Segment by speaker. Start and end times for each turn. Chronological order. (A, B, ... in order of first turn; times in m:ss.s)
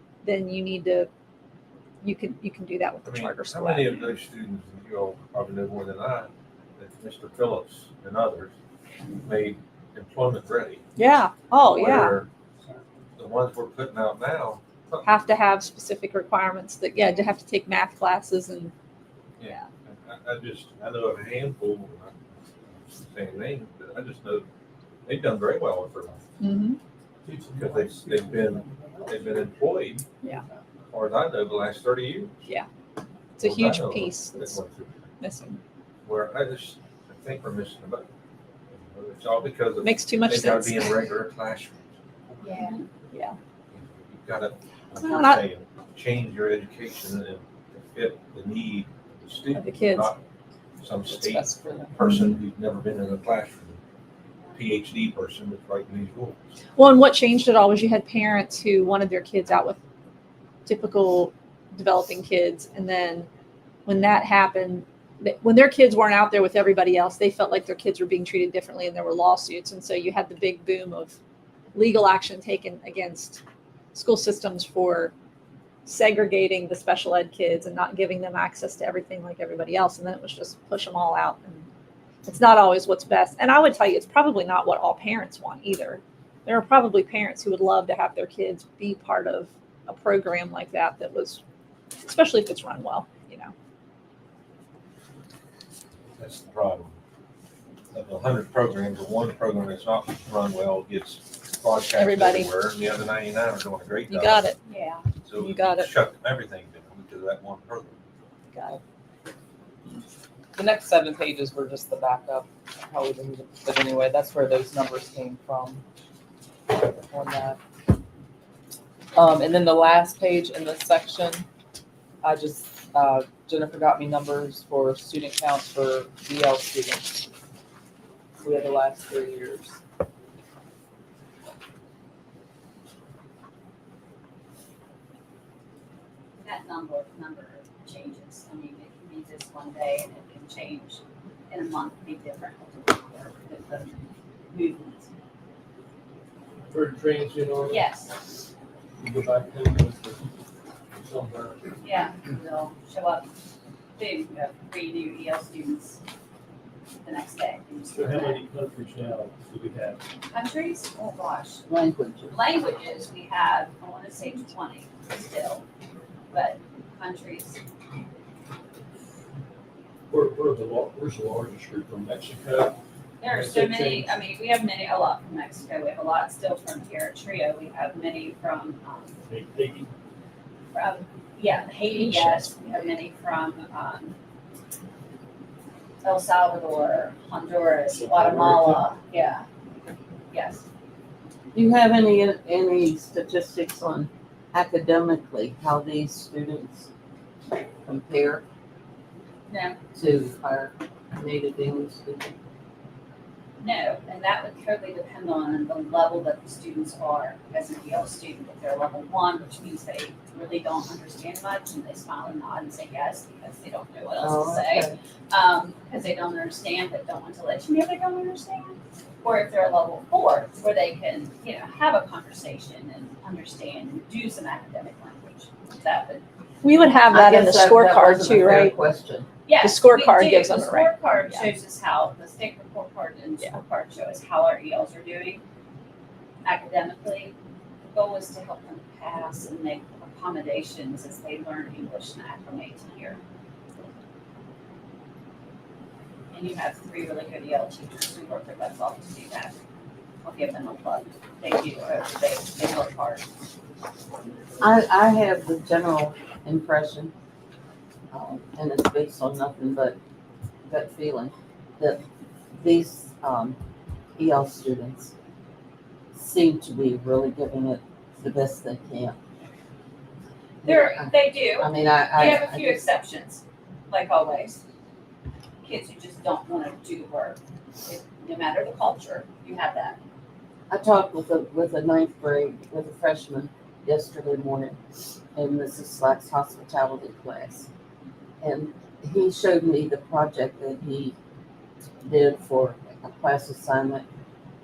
0:00.2-0:01.1 A
0:02.0-0:04.1 A
0:03.0-0:08.5 B
0:09.2-0:10.8 B
0:11.0-0:12.1 A
0:11.6-0:12.3 B
0:13.2-0:15.0 B
0:15.0-0:18.7 A
0:19.4-0:22.1 B
0:22.8-0:24.4 B
0:25.0-0:26.2 B
0:26.4-0:26.8 A
0:27.2-0:29.5 C
0:27.5-0:30.0 B
0:30.9-0:32.4 B
0:33.4-0:34.6 A
0:33.4-0:35.0 B
0:35.2-0:35.6 A
0:36.0-0:38.1 B
0:38.7-0:41.9 B
0:39.8-0:40.9 A
0:42.4-0:42.8 D
0:43.7-0:50.2 B
0:45.0-0:45.4 A
0:49.5-0:50.1 A
0:50.8-0:53.8 B
0:51.1-0:51.9 E
0:54.5-0:56.4 B
0:56.8-0:59.8 A
1:00.6-1:03.3 A
1:03.8-1:11.2 A
1:11.7-1:13.4 A
1:13.9-1:15.1 A
1:15.8-1:21.7 A
1:22.2-1:31.4 A
1:32.0-1:33.5 A
1:36.1-1:36.9 B
1:37.9-1:44.4 B
1:41.9-1:42.5 A
1:44.1-1:44.6 A
1:44.6-1:45.0 D
1:45.2-1:48.0 B
1:45.4-1:45.9 A
1:48.5-1:48.8 A
1:50.5-1:55.8 E
1:56.7-1:57.6 E
1:59.1-2:01.5 E
2:02.2-2:07.3 E
2:08.4-2:09.8 E
2:16.4-2:25.1 D
2:26.7-2:27.8 C
2:27.6-2:28.2 D
2:29.0-2:30.2 C
2:30.9-2:31.6 C
2:31.8-2:33.3 D
2:34.0-2:36.0 D
2:37.0-2:38.4 D
2:37.9-2:40.0 C
2:40.3-2:41.6 D
2:41.7-2:42.4 F
2:42.3-2:45.6 D
2:46.3-2:47.6 D
2:50.1-2:54.1 C
2:53.2-2:59.1 D
2:59.2-2:59.9 C
3:00.7-3:04.2 D
3:06.0-3:09.4 D
3:07.9-3:08.8 C
3:10.3-3:10.6 D
3:11.5-3:16.9 F
3:17.8-3:18.4 F
3:19.5-3:19.8 D
3:19.9-3:22.3 F
3:23.6-3:46.2 D
3:34.2-3:35.0 F
3:46.6-3:48.7 A
3:47.1-3:49.3 F
3:49.5-3:55.4 D
3:49.6-3:51.5 A
3:56.4-4:03.2 D
4:06.3-4:09.5 D
4:10.2-4:13.2 D
4:14.6-4:17.1 F
4:18.1-4:20.0 F
4:20.6-4:22.0 F
4:22.5-4:23.6 F
4:24.2-4:25.1 F
4:26.1-4:29.2 F
4:30.6-4:32.8 F
4:30.6-4:34.6 D
4:35.6-4:40.0 D
4:40.7-4:44.8 F
4:45.3-4:47.7 F
4:48.4-4:51.1 F
4:52.0-4:54.0 F